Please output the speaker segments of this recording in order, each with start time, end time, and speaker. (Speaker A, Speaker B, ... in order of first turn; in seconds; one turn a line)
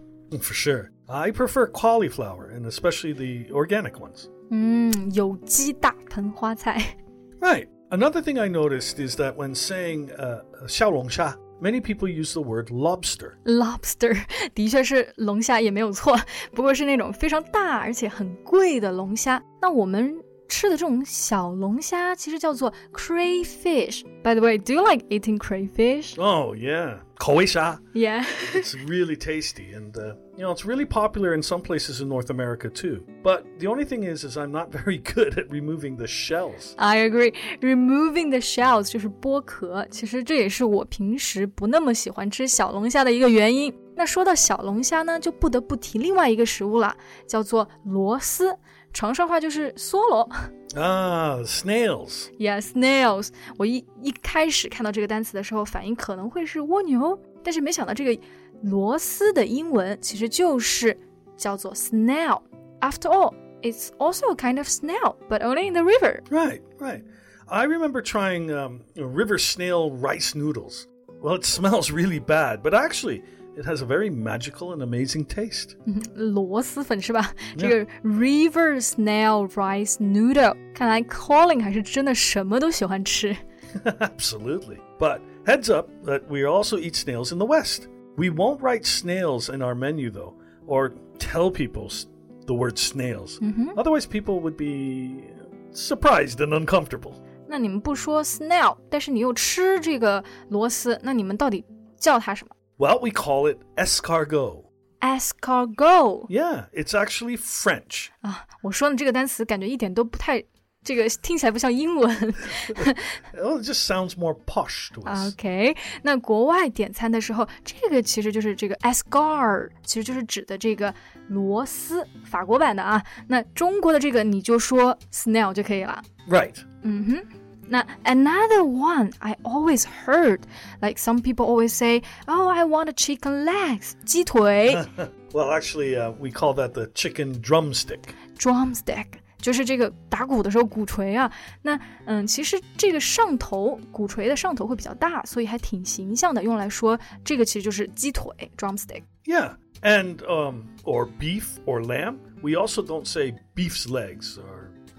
Speaker A: 0.3-4.3
Speaker B: 4.5-7.0
Speaker A: 7.4-13.4
Speaker B: 13.4-26.2
Speaker A: 26.2-27.8
Speaker B: 27.9-28.6
Speaker A: 28.4-36.8
Speaker B: 36.8-50.3
Speaker A: 50.7-52.3
Speaker B: 52.4-66.2
Speaker A: 66.3-75.8
Speaker B: 75.9-83.4
Speaker A: 83.8-97.2
Speaker B: 93.4-93.8
Speaker B: 97.5-102.5
Speaker A: 102.8-104.7
Speaker B: 105.0-106.3
Speaker A: 106.3-108.1
Speaker B: 108.2-113.0
Speaker A: 113.3-115.3
Speaker B: 115.0-126.0
Speaker A: 126.3-126.6
Speaker B: 126.8-134.8
Speaker A: 134.7-138.1
Speaker B: 138.4-149.0
Speaker A: 149.2-154.7